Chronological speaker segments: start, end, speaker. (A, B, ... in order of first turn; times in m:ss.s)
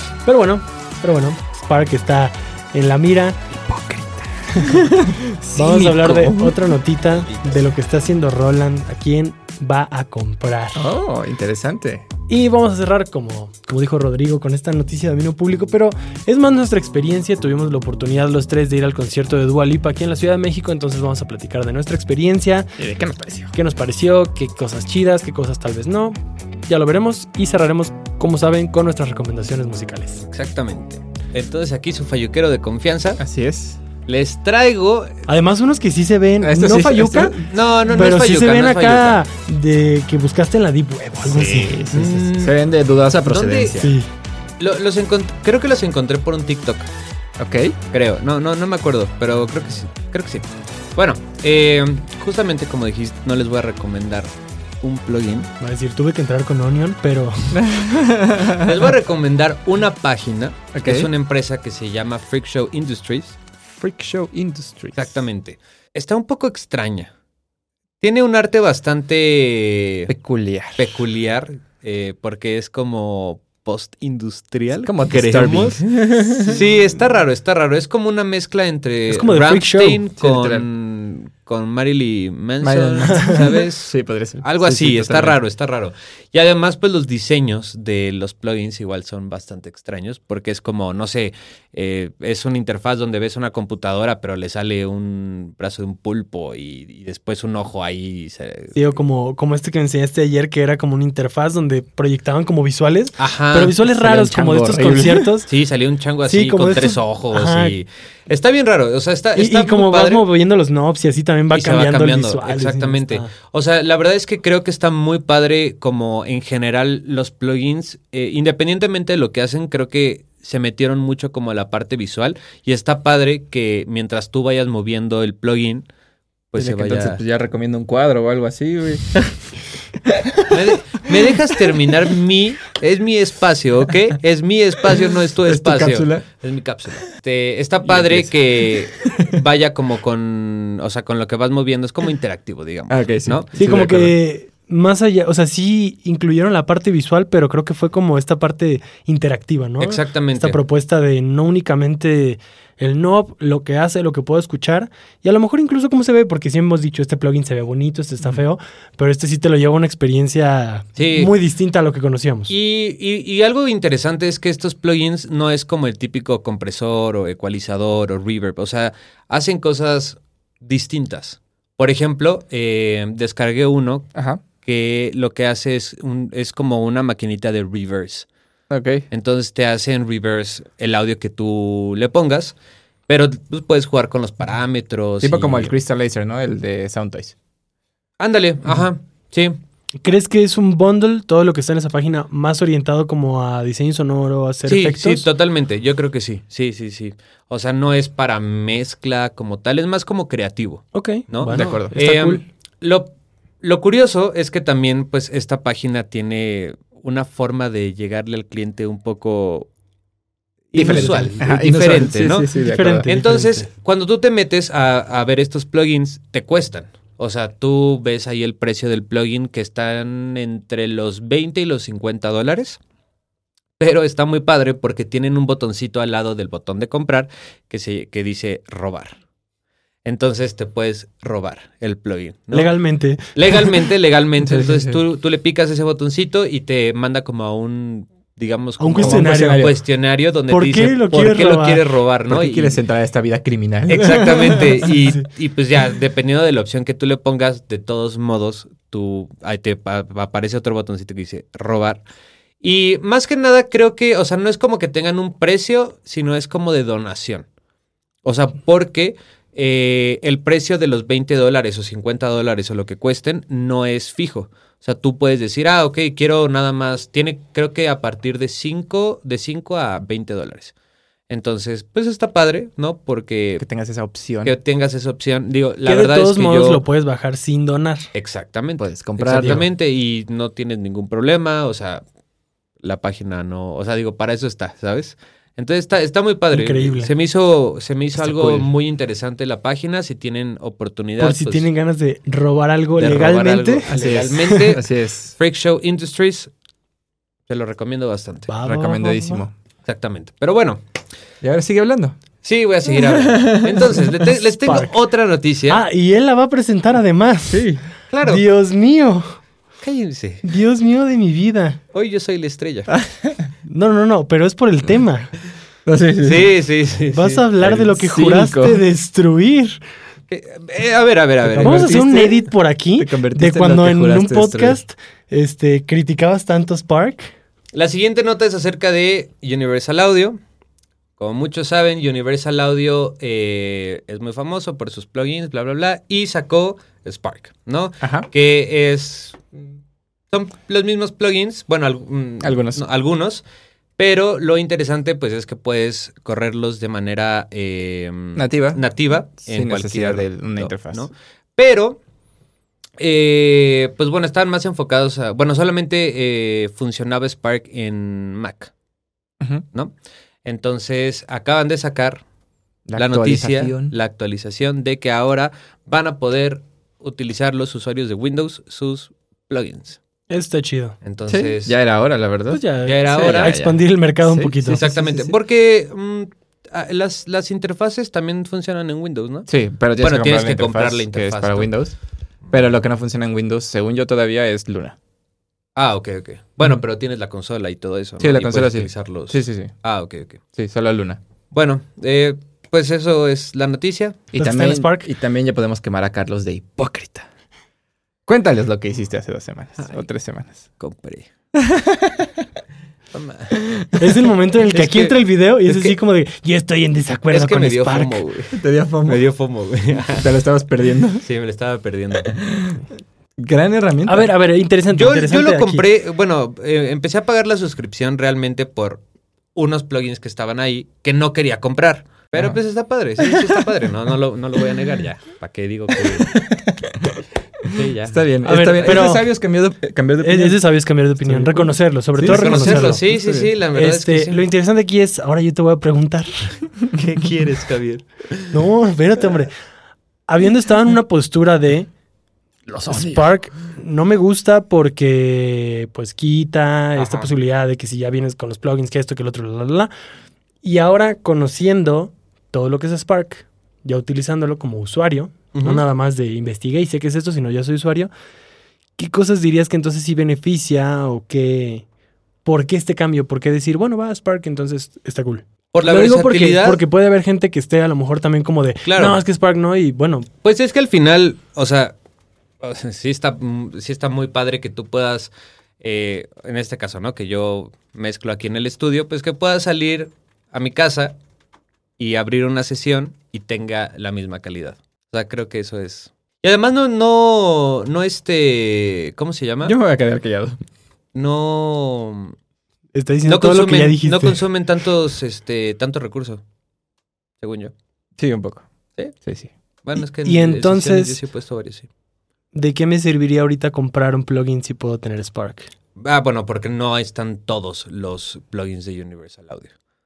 0:00.2-0:03.5 A
0:03.6-0:06.7 B
0:04.5-0:04.9 A
0:05.6-0:10.8 A
0:07.2-0:07.5 C
0:10.7-0:12.1 B
0:12.3-0:22.7 A
0:22.8-0:23.5 B
0:23.5-0:30.2 A
0:30.2-0:33.2 C
0:33.2-0:33.8 B
0:34.0-0:35.2 C
0:35.3-0:41.9 A
0:36.4-0:37.4 B
0:37.4-0:39.2 C
0:41.2-0:44.0 B
0:41.9-0:42.6 C
0:43.2-0:43.8 C
0:43.8-0:44.1 A
0:44.6-0:46.9 C
0:47.4-0:47.8 B
0:47.9-0:54.3 C
0:54.8-0:55.5 C
0:55.6-0:57.6 A
0:57.5-0:58.9 B
0:58.6-1:03.4 C
1:00.7-1:01.1 B
1:03.8-1:05.1 B
1:04.9-1:07.1 C
1:08.0-1:10.1 C
1:10.1-1:11.0 B
1:10.8-1:15.8 C
1:14.8-1:16.6 B
1:16.4-1:23.9 C
1:19.1-1:20.0 A
1:20.2-1:20.7 B
1:22.6-1:25.4 B
1:23.1-1:23.4 A
1:24.4-1:38.9 C
1:38.7-1:45.5 A
1:43.2-1:43.8 C
1:43.9-1:45.4 B
1:45.4-1:50.2 C
1:46.3-1:47.8 A
1:49.4-1:53.3 A
1:51.5-2:05.9 C
2:06.5-2:07.2 C
2:06.6-2:09.4 B
2:10.0-2:10.5 B
2:10.5-2:23.5 C
2:15.4-2:16.2 B
2:17.8-2:19.4 B
2:22.9-2:24.1 B
2:23.6-2:42.5 A
2:29.8-2:30.6 C
2:41.0-2:41.3 C
2:42.5-2:54.1 C
2:54.1-2:54.4 B
2:54.6-2:58.3 C
2:58.7-2:59.0 B
2:59.1-3:02.5 C
3:03.1-3:05.7 C
3:05.2-3:07.3 B
3:08.2-3:09.6 C
3:10.0-3:15.2 A
3:14.6-3:23.1 C
3:20.9-3:22.1 A
3:21.5-3:22.4 B
3:23.6-3:29.7 C
3:30.7-3:32.5 C
3:30.7-3:33.1 B
3:30.8-3:31.3 A
3:32.5-3:33.7 A
3:33.0-3:42.8 C
3:43.8-3:49.2 C
3:50.0-3:52.7 C
3:52.5-3:53.7 A
3:53.3-4:02.8 C
3:54.4-3:55.0 B
3:58.8-3:59.7 A
3:59.0-3:59.7 B
4:00.5-4:01.9 A
4:02.3-4:04.9 B
4:03.9-4:12.0 C
4:12.6-4:17.5 C
4:18.2-4:30.7 C
4:31.3-4:33.6 C
4:33.6-4:34.5 B
4:34.4-4:36.8 C
4:35.8-4:38.1 A
4:38.1-4:42.0 C
4:38.8-4:39.6 B
4:39.4-4:39.6 A
4:42.8-4:51.7 C
4:46.5-4:47.1 A
4:48.2-4:48.7 B
4:51.2-4:54.6 A
4:53.0-4:56.5 C
4:53.9-4:55.3 B
4:57.5-4:58.5 C
4:58.5-4:59.4 A
4:58.6-4:59.5 B
4:59.8-5:00.8 C
5:01.4-5:02.2 B
5:02.4-5:05.8 C
5:03.0-5:03.9 B
5:04.1-5:05.0 A
5:05.7-5:07.7 A
5:07.5-5:07.8 B
5:08.1-5:08.4 C
5:08.2-5:09.3 A
5:09.8-5:10.4 C
5:10.4-5:11.8 A
5:11.9-5:13.0 C
5:12.9-5:13.4 B
5:13.7-5:15.3 A
5:15.8-5:16.5 B
5:16.2-5:17.5 C
5:17.1-5:19.8 A
5:17.6-5:18.8 B
5:20.3-5:22.0 C
5:21.5-5:22.4 B
5:21.6-5:27.3 A
5:23.0-5:24.8 B
5:27.7-5:30.4 C
5:31.2-5:39.5 C
5:38.0-5:38.3 B
5:40.3-5:43.4 C
5:42.4-5:42.8 B
5:44.0-5:52.0 C
5:48.4-5:48.8 B
5:49.3-5:51.1 B
5:53.0-5:58.7 C
6:00.4-6:02.2 C
6:02.9-6:03.9 B
6:03.0-6:10.0 C
6:10.3-6:11.0 A
6:11.0-6:11.8 C
6:11.3-6:15.4 B
6:12.5-6:14.9 A
6:12.8-6:13.6 C
6:14.7-6:21.7 C
6:19.5-6:22.0 B
6:22.5-6:25.0 B
6:25.8-6:30.4 C
6:28.2-6:29.7 B
6:30.5-6:31.2 B
6:31.5-6:34.2 C
6:34.3-6:37.3 B
6:34.3-6:35.1 A
6:38.3-6:40.6 B
6:40.8-6:41.3 C
6:41.5-6:42.4 B
6:43.1-6:43.6 C
6:43.5-6:44.3 B
6:44.0-6:48.2 A
6:44.7-6:45.2 C
6:47.3-6:50.3 C
6:48.5-6:49.2 B
6:50.2-6:51.2 B
6:51.2-6:52.4 C
6:52.3-6:52.8 B
6:53.4-6:54.3 B
6:54.1-6:55.8 A
6:54.9-6:59.0 C
6:59.5-7:06.4 C
7:03.2-7:03.6 B
7:06.2-7:10.6 B
7:07.7-7:08.2 C
7:08.4-7:09.3 A
7:10.2-7:13.0 A
7:11.2-7:13.5 B
7:12.3-7:14.4 C
7:13.7-7:16.6 A
7:16.9-7:18.6 C
7:18.5-7:19.5 A
7:20.3-7:21.9 A
7:22.7-7:23.3 B
7:22.9-7:29.9 A
7:27.0-7:27.3 B
7:30.6-7:38.1 A
7:35.5-7:35.8 C
7:39.0-7:41.8 A
7:42.4-7:50.3 A
7:45.7-7:46.8 C
7:48.8-7:49.2 C
7:50.4-7:51.9 C
7:52.6-8:01.2 C
8:02.0-8:09.8 C
8:09.6-8:10.6 B
8:11.1-8:12.4 C
8:12.9-8:14.4 A
8:13.3-8:16.4 C
8:17.4-8:17.7 C
8:18.2-8:18.6 B
8:19.2-8:19.5 B
8:19.8-8:21.9 C
8:20.2-8:21.2 A
8:22.5-8:25.7 A
8:26.0-8:29.7 C